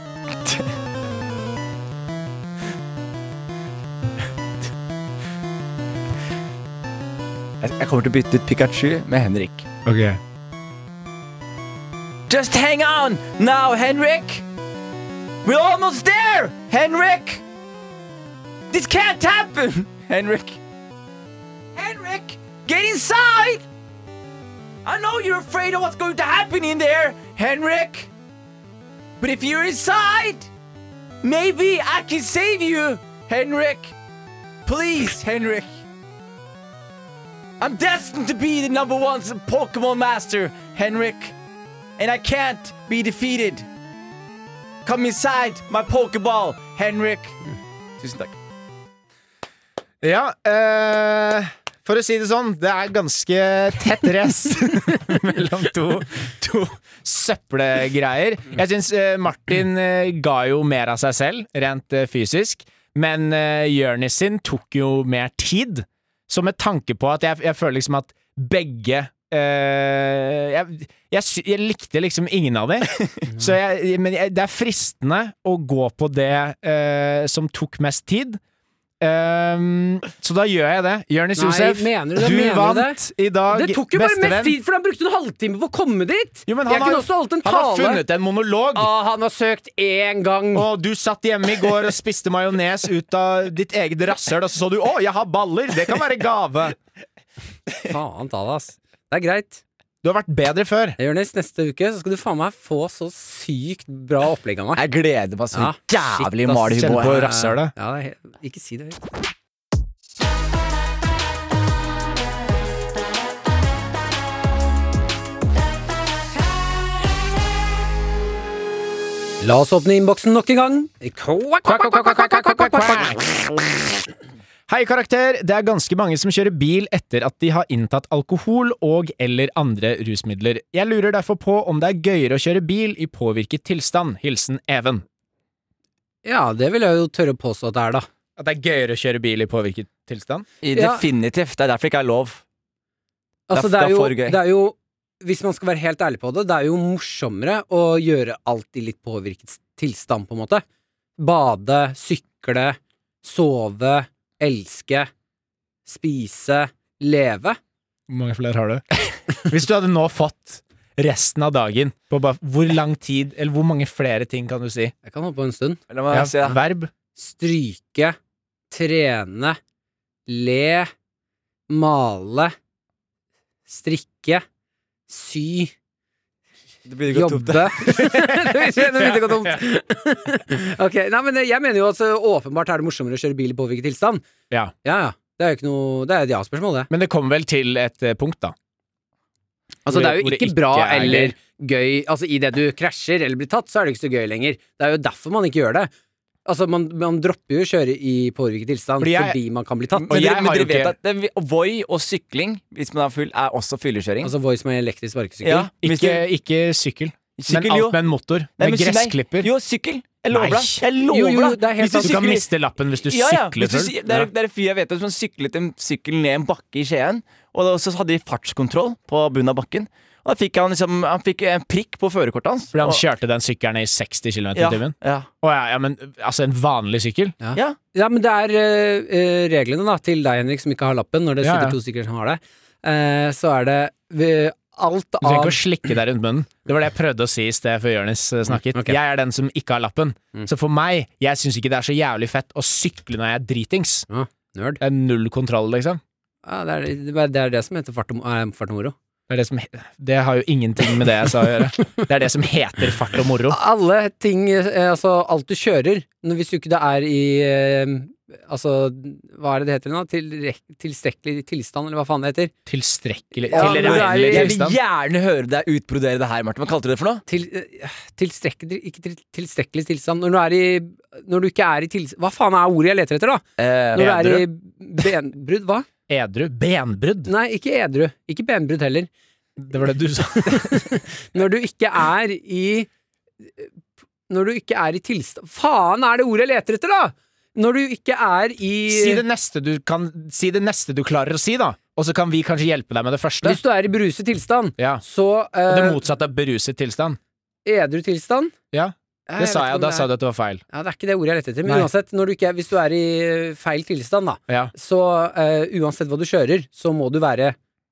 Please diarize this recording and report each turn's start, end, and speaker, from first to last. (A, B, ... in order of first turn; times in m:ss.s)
0:07.6-0:09.7 A
0:09.8-0:10.2 B
0:12.3-0:14.4 A
0:15.4-0:17.4 A
0:18.7-0:20.6 A
0:21.8-0:23.6 A
0:24.8-0:28.1 A
0:29.2-0:30.5 A
0:31.2-0:34.0 A
0:34.7-0:35.7 A
0:37.6-0:41.3 A
0:42.0-0:43.7 A
0:44.8-0:47.4 A
0:48.0-0:48.4 A
0:50.0-1:18.4 B
1:19.0-1:24.6 B
1:21.4-1:23.0 C
1:23.5-1:28.0 C
1:26.5-1:28.9 B
1:28.8-1:30.7 C
1:30.5-1:36.8 B
1:37.8-1:39.6 C
1:40.0-1:41.0 B
1:41.0-1:44.8 C
1:44.8-1:47.3 A
1:45.5-1:49.0 C
1:46.8-1:47.7 B
1:59.4-2:03.2 C
2:01.6-2:03.6 B
2:04.7-2:15.0 B
2:16.2-2:18.1 C
2:18.4-2:20.5 B
2:20.6-2:22.4 A
2:20.7-2:21.0 C
2:23.5-2:30.6 C
2:23.5-2:24.4 A
2:31.2-2:35.1 C
2:35.9-2:37.6 C
2:38.1-2:44.9 B
2:45.0-2:45.8 C
2:45.9-2:46.6 A
2:46.1-2:46.9 B
2:47.2-2:48.2 C
2:48.7-2:49.6 C
2:50.3-2:50.9 C
2:51.7-2:52.5 C
2:53.7-2:54.4 C
2:55.1-2:55.7 C
2:56.9-2:58.2 A
2:57.1-3:04.2 C
2:58.9-2:59.6 B
3:04.8-3:06.9 C
3:06.9-3:08.6 B
3:09.9-3:15.9 C
3:09.9-3:11.4 B
3:16.4-3:20.2 C
3:19.0-3:19.4 B
3:20.1-3:20.9 B
3:20.1-3:24.3 A
3:24.2-3:25.7 C
3:25.4-3:26.2 A
3:25.8-3:29.5 B
3:27.4-3:28.0 A
3:28.6-3:32.4 A
3:30.3-3:30.8 B
3:31.0-3:32.3 C
3:31.8-3:34.3 B
3:33.0-3:43.0 A
3:42.7-3:47.4 B
3:44.6-3:45.3 A
3:47.4-3:55.6 C
3:51.4-3:51.8 B
3:55.2-4:04.1 B
3:58.5-3:59.0 C
4:04.1-4:04.8 C
4:04.8-4:06.0 B
4:06.4-4:09.0 C
4:09.3-4:13.6 B
4:13.5-4:22.5 C
4:22.7-4:24.8 B
4:23.5-4:24.6 C
4:23.5-4:27.2 A
4:27.3-4:33.4 C
4:33.6-4:34.5 A
4:34.0-4:35.9 C
4:36.1-4:37.3 B
4:37.3-4:39.1 C
4:39.6-4:40.9 B
4:40.4-4:42.9 C
4:44.3-4:49.2 C
4:48.9-4:53.6 B
4:53.4-4:56.0 C
4:54.8-4:55.0 B
4:55.7-4:57.2 B
4:57.7-4:58.5 C
4:58.7-5:00.6 B
4:59.3-5:00.1 C
5:00.7-5:07.6 C